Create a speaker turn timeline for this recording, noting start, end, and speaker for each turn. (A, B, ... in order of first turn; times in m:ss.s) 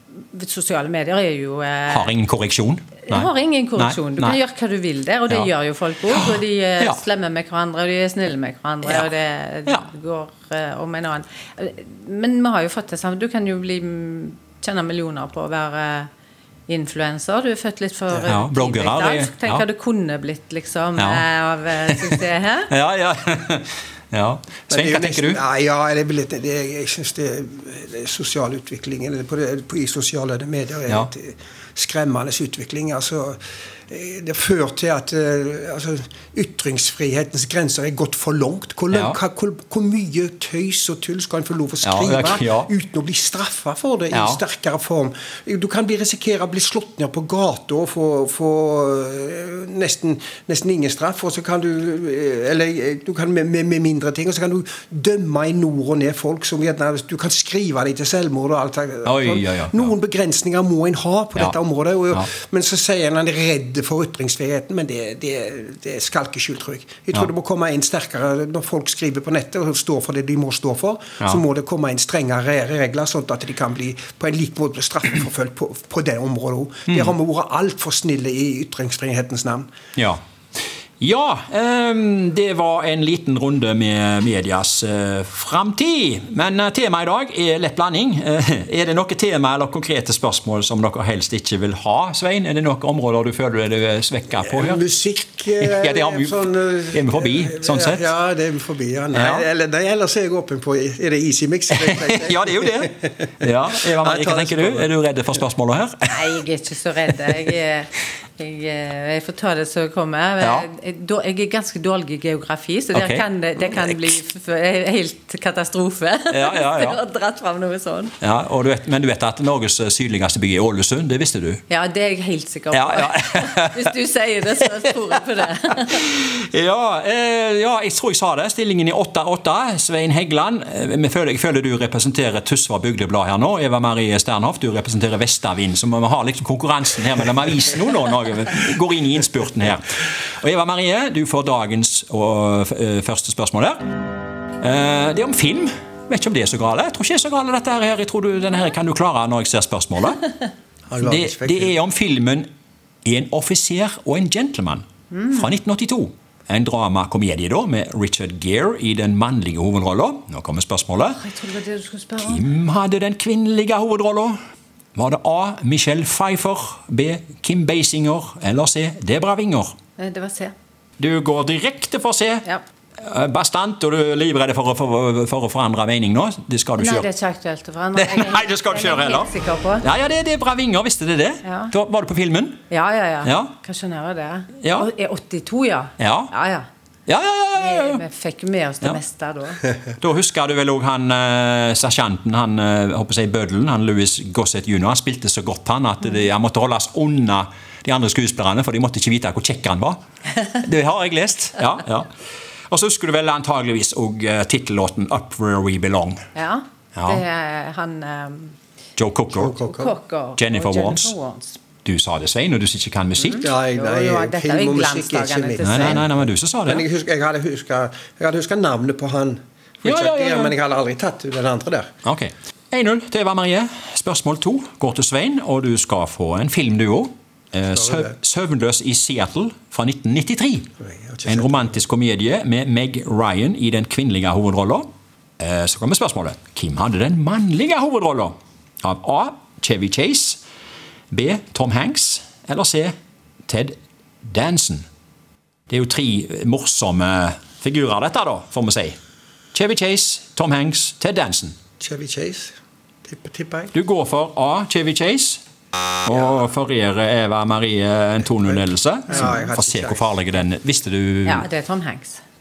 0:00.3-0:02.1 A
0:01.9-0:04.4 B
0:03.1-0:16.1 A
0:06.1-0:07.0 B
0:16.7-0:22.7 A
0:18.3-0:19.7 B
0:21.0-0:21.2 B
0:21.8-0:25.4 B
0:24.7-0:33.4 C
0:33.9-1:19.7 C
0:38.9-0:39.2 B
0:41.8-0:42.7 B
0:44.1-0:44.4 B
0:59.0-0:59.9 B
1:21.0-1:34.8 B
1:34.4-1:43.3 C
1:35.6-1:38.0 B
1:39.1-1:39.4 B
1:41.8-1:46.2 B
1:43.9-1:44.9 C
1:46.1-1:58.2 A
1:50.4-1:50.7 B
1:52.9-1:54.1 B
1:56.3-1:57.0 B
1:58.2-2:01.6 B
2:01.7-2:06.0 A
2:02.7-2:03.9 B
2:05.9-2:23.8 B
2:24.6-2:30.3 B
2:30.9-2:31.8 C
2:31.0-2:32.5 B
2:33.0-2:41.2 B
2:35.1-2:35.5 A
2:41.2-2:42.5 A
2:42.2-2:44.4 B
2:45.0-2:49.7 B
2:50.0-2:50.5 A
2:51.0-2:52.4 B
2:53.0-2:57.1 B
2:56.8-2:59.9 A
2:58.0-2:59.3 B
2:59.8-3:02.6 B
3:01.4-3:01.7 A
3:02.7-3:06.7 A
3:03.2-3:03.5 B
3:04.6-3:04.9 B
3:06.0-3:06.3 B
3:07.1-3:08.0 B
3:07.5-3:09.6 A
3:10.0-3:20.0 B
3:20.6-3:22.1 B
3:22.7-3:26.2 B
3:26.4-3:28.6 A
3:27.0-3:27.2 B
3:29.0-3:29.6 B
3:29.3-3:29.9 C
3:29.6-3:31.6 A
3:30.4-3:31.1 B
3:31.8-3:33.5 B
3:33.2-3:36.0 A
3:33.4-3:41.9 C
3:35.6-3:36.8 B
3:39.8-3:40.5 B
3:42.0-3:50.7 B
3:47.7-3:48.1 C
3:50.8-3:51.8 C
3:51.3-3:54.9 B
3:55.4-4:00.4 B
4:01.1-4:02.9 B
4:03.5-4:04.8 B
4:05.7-4:09.0 B
4:09.5-4:11.6 B
4:11.8-4:12.5 C
4:13.1-4:13.7 C
4:13.7-4:15.4 B
4:16.0-4:21.5 B
4:19.1-4:20.2 C
4:19.1-4:19.5 A
4:21.3-4:22.2 A